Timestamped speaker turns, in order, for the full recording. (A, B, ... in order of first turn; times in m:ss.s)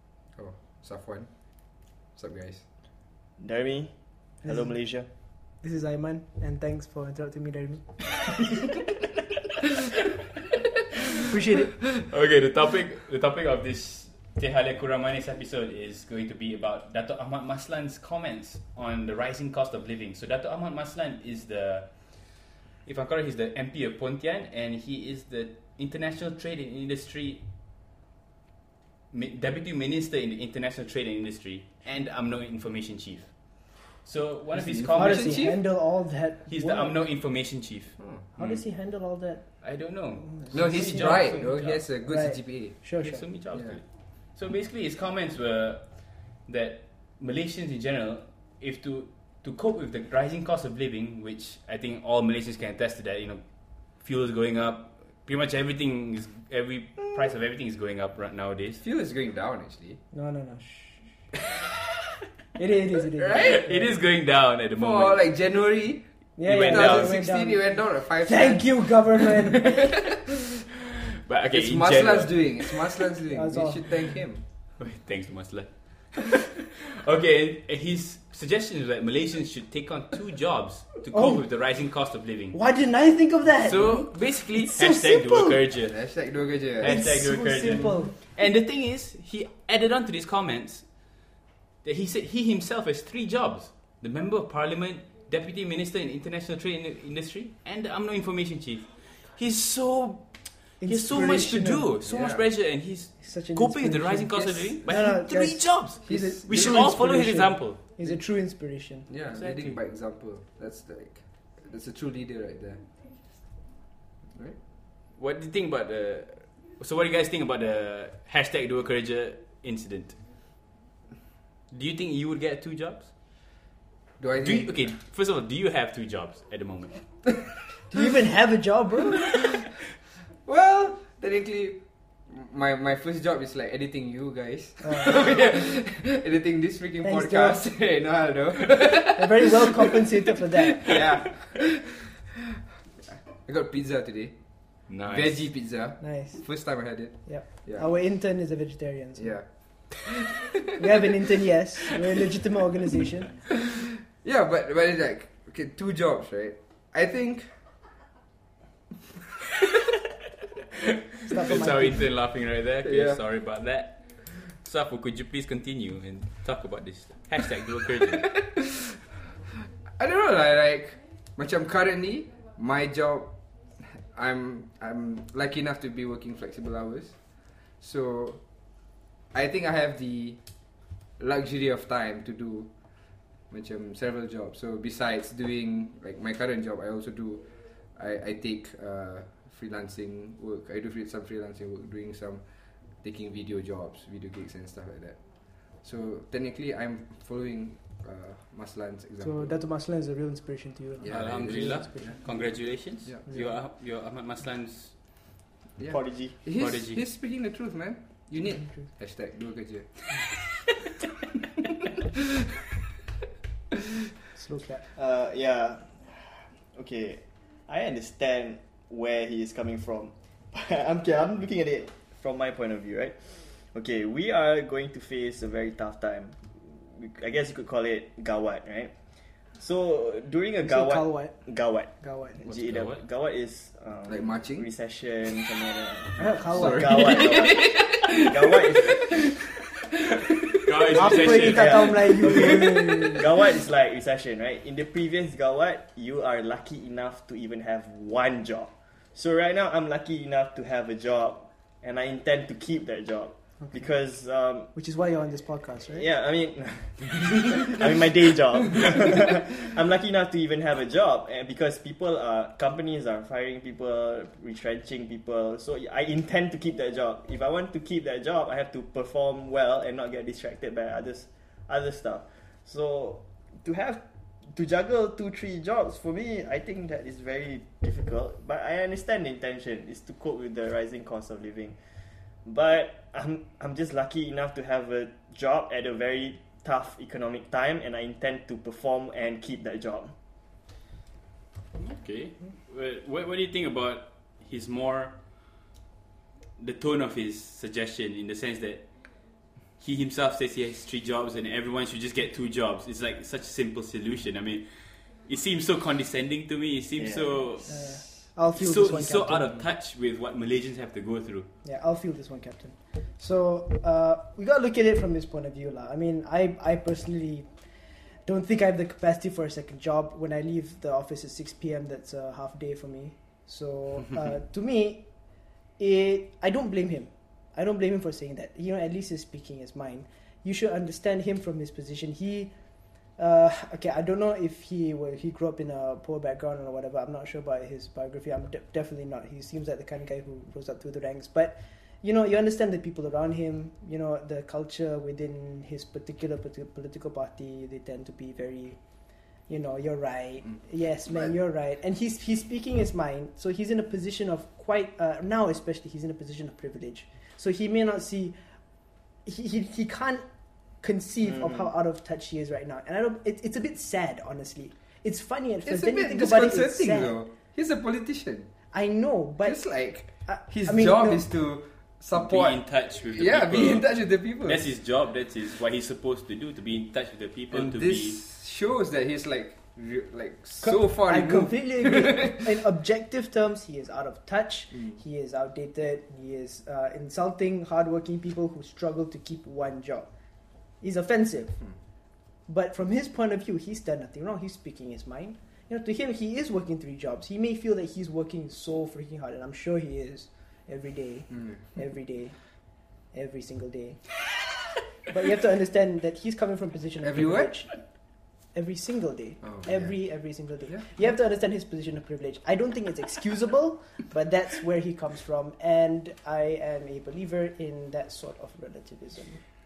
0:00.3-0:02.6 A
0:03.4-0:05.1 B
0:04.4-0:05.0 C
0:05.5-0:08.3 C
0:11.3-0:11.8 C
0:12.0-0:27.4 D
0:29.1-0:35.6 D
0:34.5-0:35.6 A
0:34.9-0:37.0 C
0:36.5-0:38.6 D
0:38.3-0:43.3 C
0:39.6-0:41.8 D
0:40.5-0:42.8 A
0:43.0-0:58.8 D
0:43.5-0:43.8 A
0:58.8-1:00.0 A
1:00.1-1:01.0 C
1:02.6-1:03.9 C
1:03.2-1:03.6 A
1:03.4-1:05.2 D
1:04.8-1:09.8 A
1:06.4-1:10.0 C
1:06.4-1:07.2 D
1:11.2-1:12.7 D
1:11.5-1:14.4 A
1:13.3-1:13.8 C
1:14.8-1:22.6 D
1:21.1-1:21.4 C
1:22.5-1:25.6 C
1:23.6-1:26.0 D
1:25.9-1:27.0 A
1:26.6-1:31.3 D
1:26.8-1:28.1 C
1:31.8-1:47.8 D
1:40.8-1:41.9 C
1:42.0-1:42.4 A
1:43.2-1:49.1 C
1:44.3-1:44.8 A
1:46.0-1:46.4 A
1:49.1-1:52.8 A
1:49.3-1:49.8 D
1:54.3-1:54.6 A
1:55.1-2:00.2 D
2:01.7-2:03.5 D
2:04.2-2:04.7 A
2:04.4-2:07.0 D
2:07.9-2:09.2 C
2:10.4-2:20.0 A
2:14.8-2:15.1 C
2:17.0-2:17.6 C
2:19.0-2:21.0 C
2:20.8-2:22.0 A
2:23.4-2:24.4 A
2:24.9-2:25.4 D
2:24.9-2:27.8 A
2:26.0-2:26.4 C
2:27.2-2:29.3 C
2:29.2-2:30.5 A
2:30.8-2:33.4 C
2:34.2-2:37.5 A
2:41.2-2:42.0 C
2:41.3-2:48.2 D
2:42.8-2:43.2 A
2:48.4-2:48.7 A
2:50.0-3:19.5 A
3:19.2-3:22.4 C
3:21.0-3:23.2 A
3:21.0-3:25.2 D
3:25.8-3:29.9 A
3:25.9-3:26.4 B
3:26.5-3:27.0 D
3:34.3-3:34.9 C
3:34.9-3:49.0 B
3:49.5-3:59.1 B
3:50.6-3:51.4 C
3:52.0-3:52.4 C
3:52.5-3:53.0 D
3:54.1-3:54.7 A
3:56.2-3:57.4 C
3:56.5-3:59.0 A
4:00.6-4:02.6 D
4:01.0-4:03.3 C
4:01.1-4:02.4 B
4:03.2-4:14.7 B
4:13.6-4:13.9 C
4:14.7-4:16.1 C
4:15.8-4:41.8 B
4:42.4-4:50.1 B
4:51.8-4:55.5 D
4:56.6-5:11.5 D
5:07.0-5:08.1 B
5:07.7-5:09.4 C
5:11.6-5:17.5 C
5:18.2-5:25.0 C
5:25.8-5:32.5 C
5:33.2-5:48.8 C
5:49.5-5:58.4 C
5:59.2-6:00.2 C
6:00.8-6:07.2 C
6:01.2-6:01.7 B
6:05.6-6:08.5 A
6:08.7-6:11.2 C
6:09.4-6:14.6 A
6:12.1-6:13.9 D
6:14.4-6:18.2 D
6:17.5-6:22.5 A
6:20.6-6:30.1 C
6:30.8-6:31.6 C
6:32.5-6:44.2 C
6:41.3-6:41.6 A
6:45.1-6:47.8 C
6:47.0-6:47.6 A
6:48.5-6:59.4 C
6:49.4-6:50.8 A